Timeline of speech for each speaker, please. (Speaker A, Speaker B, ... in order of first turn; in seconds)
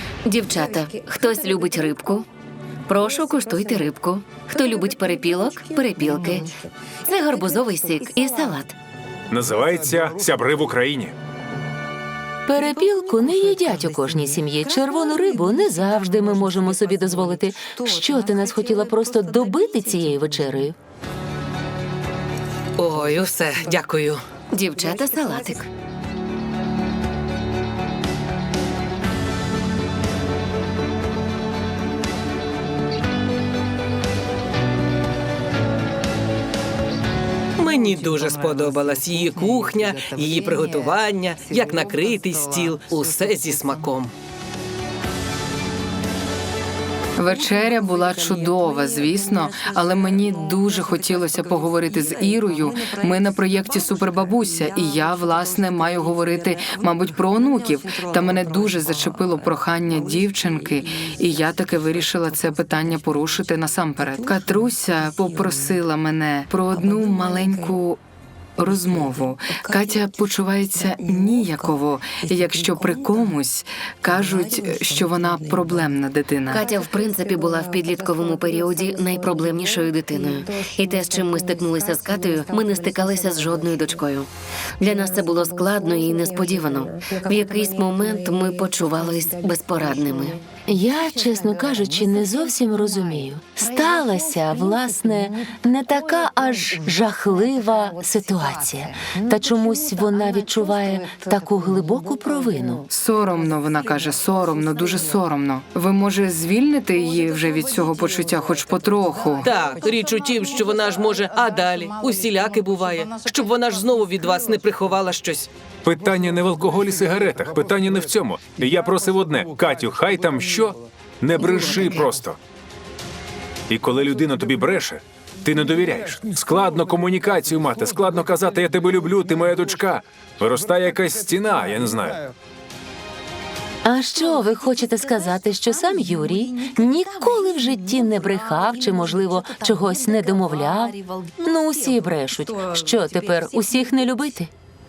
Speaker A: 0.2-2.3, 2.9-8.8, 24.5-25.7, 76.5-84.3, 84.8-90.4
Speaker B: 9.3-11.1, 115.8-122.4, 123.7-132.2
Speaker C: 12.5-20.8, 90.6-102.9, 133.8-144.5
Speaker D: 22.8-24.2, 37.6-44.1, 109.4-115.5
Speaker E: 47.2-68.0, 68.6-76.7, 102.9-109.5